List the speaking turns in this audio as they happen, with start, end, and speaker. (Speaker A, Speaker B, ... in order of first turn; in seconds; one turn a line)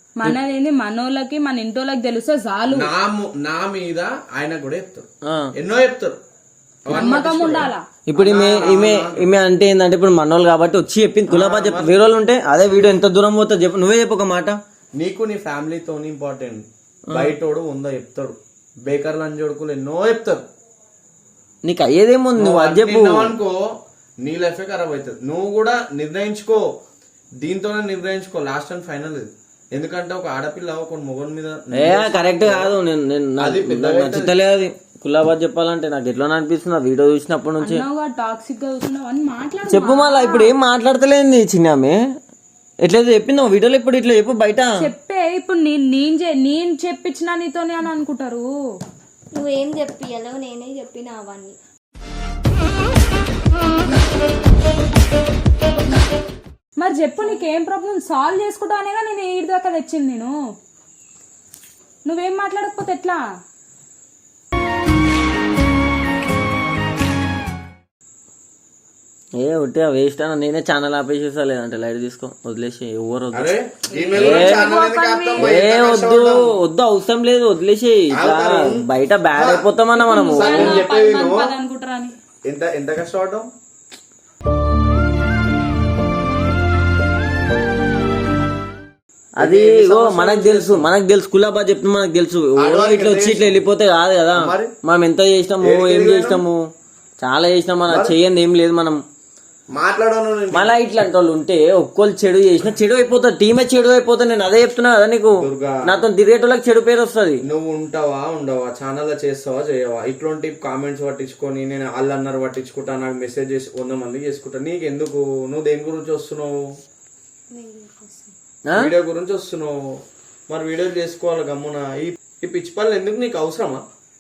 Speaker A: 0.2-2.9
Speaker B: 2.7-6.2
Speaker C: 5.2-5.5
Speaker B: 6.8-9.1
Speaker A: 6.9-7.8
Speaker C: 8.1-14.6
Speaker B: 11.3-11.9
Speaker B: 15.0-20.5
Speaker C: 21.6-23.3
Speaker B: 22.4-23.7
Speaker B: 24.2-26.7
Speaker B: 27.4-32.7
Speaker C: 31.7-37.8
Speaker B: 33.4-34.4
Speaker A: 37.6-40.5
Speaker C: 39.7-42.0
Speaker C: 42.8-44.8
Speaker A: 44.8-48.5
Speaker D: 49.4-51.6
Speaker A: 56.8-60.3
Speaker A: 62.1-63.2
Speaker C: 69.4-73.5
Speaker B: 73.3-76.5
Speaker A: 74.0-75.5
Speaker C: 74.2-74.7
Speaker C: 75.4-80.9
Speaker B: 78.1-78.8
Speaker B: 79.3-79.7
Speaker A: 80.0-82.2
Speaker B: 80.3-81.5
Speaker B: 82.5-83.5
Speaker B: 89.4-90.9
Speaker C: 89.4-96.6
Speaker B: 92.6-93.6
Speaker B: 94.3-94.7
Speaker B: 95.6-96.4
Speaker C: 97.2-99.0
Speaker B: 97.9-98.1
Speaker B: 99.7-100.7
Speaker C: 100.5-107.4
Speaker B: 105.4-106.0
Speaker B: 107.5-116.7
Speaker D: 117.5-118.3
Speaker B: 118.8-123.8